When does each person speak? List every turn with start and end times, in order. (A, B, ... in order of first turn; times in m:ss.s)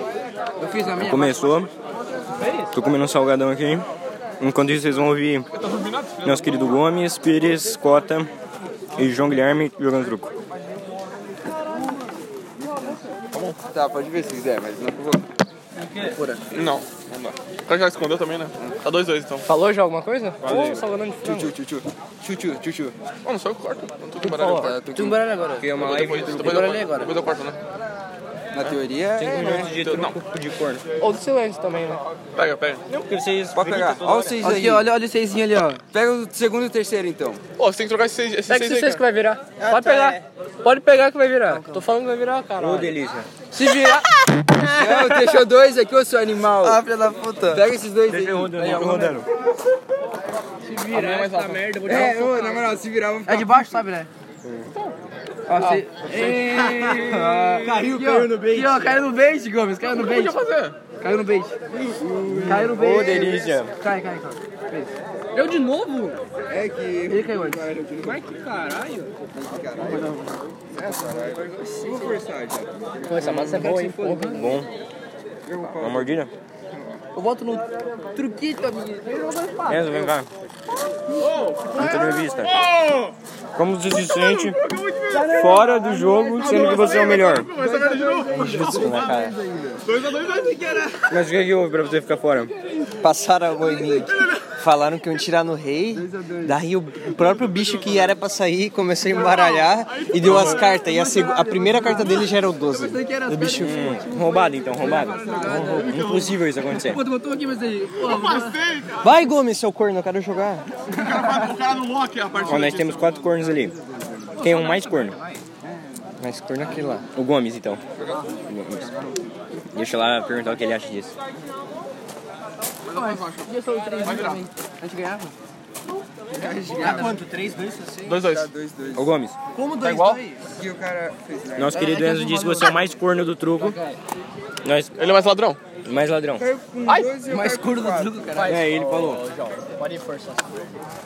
0:00.6-0:01.4 A
0:01.0-0:01.7 B
0:02.4-0:02.7 A
0:02.7-0:03.8 B
0:04.4-0:05.5 B
0:05.5-0:06.7 C
0:06.2-0:08.3 B
0:09.0-0:10.3 B
0:12.6-0:13.0 D
0:13.3-0:13.6 C
0:13.6-0:15.3 D
0:15.8-0:16.4 A
0:16.5-0:19.5 C
0:19.4-0:21.5 A
0:20.4-0:20.8 B
0:21.2-0:22.9 D
0:23.2-0:24.9 C
0:24.2-0:25.7 A
0:24.5-0:25.2 D
0:25.6-0:26.6 B
0:25.8-0:27.6 C
0:26.4-0:27.1 A
0:28.5-0:29.7 D
0:29.1-0:30.8 B
0:29.7-0:30.1 C
0:31.0-0:32.0 A
0:32.4-0:32.8 C
0:32.9-0:34.6 B
0:33.5-0:34.9 D
0:34.4-0:35.8 A
0:34.5-0:34.8 E
0:35.9-0:37.4 D
0:37.6-0:39.0 C
0:38.5-0:42.9 A
0:39.6-0:40.2 E
0:42.6-0:43.3 B
0:43.5-0:44.1 A
0:44.8-0:48.9 D
0:44.8-0:45.4 E
0:46.2-0:46.7 A
0:46.6-0:47.7 E
0:48.1-0:49.3 B
0:48.7-0:49.1 A
0:50.6-0:52.7 A
0:50.9-0:51.9 C
0:51.8-0:53.8 D
0:51.9-0:52.3 E
0:53.2-0:54.1 A
0:55.5-1:00.4 A
0:55.6-0:59.0 E
0:59.9-1:00.8 C
1:01.0-1:01.6 A
1:01.9-1:02.7 D
1:02.3-1:03.3 E
1:02.4-1:06.2 A
1:02.5-1:03.7 B
1:06.5-1:08.2 D
1:07.1-1:09.1 A
1:09.3-1:10.2 D
1:09.8-1:10.3 A
1:10.7-1:13.6 D
1:13.0-1:14.6 A
1:13.2-1:14.7 B
1:15.4-1:17.0 D
1:15.8-1:16.3 B
1:17.1-1:20.1 A
1:19.7-1:20.3 B
1:21.2-1:23.1 C
1:21.7-1:22.5 B
1:23.5-1:24.6 B
1:24.1-1:25.3 C
1:25.1-1:26.0 A
1:25.1-1:27.5 B
1:26.1-1:29.1 C
1:27.6-1:29.8 D
1:28.2-1:29.4 E
1:29.8-1:31.0 C
1:31.1-1:32.5 B
1:33.0-1:44.0 E
1:33.7-1:34.0 D
1:35.9-1:36.6 D
1:39.1-1:41.9 C
1:41.4-1:48.6 A
1:43.5-1:47.0 B
1:44.8-1:45.8 E
1:45.1-1:45.7 D
1:45.6-1:46.3 C
1:48.0-1:49.0 C
1:49.0-1:50.7 E
1:50.9-1:53.1 C
1:52.4-1:53.7 B
1:54.4-1:55.2 B
1:54.4-1:55.4 A
1:56.5-1:57.0 E
1:57.1-1:57.8 B
1:58.0-1:59.3 D
1:58.5-1:58.9 B
1:59.7-2:01.1 B
2:02.9-2:04.4 C
2:02.9-2:05.3 A
2:06.3-2:07.2 D
2:06.4-2:08.2 E
2:08.0-2:08.5 C
2:08.2-2:09.1 D
2:09.0-2:09.4 B
2:09.5-2:10.4 E
2:09.7-2:10.4 A
2:10.4-2:11.8 D
2:11.6-2:13.8 B
2:11.7-2:12.8 A
2:13.6-2:14.0 A
2:14.6-2:14.9 B
2:15.0-2:15.6 C
2:15.8-2:16.4 B
2:16.4-2:18.4 D
2:17.2-2:20.4 A
2:17.7-2:18.0 E
2:18.4-2:19.2 B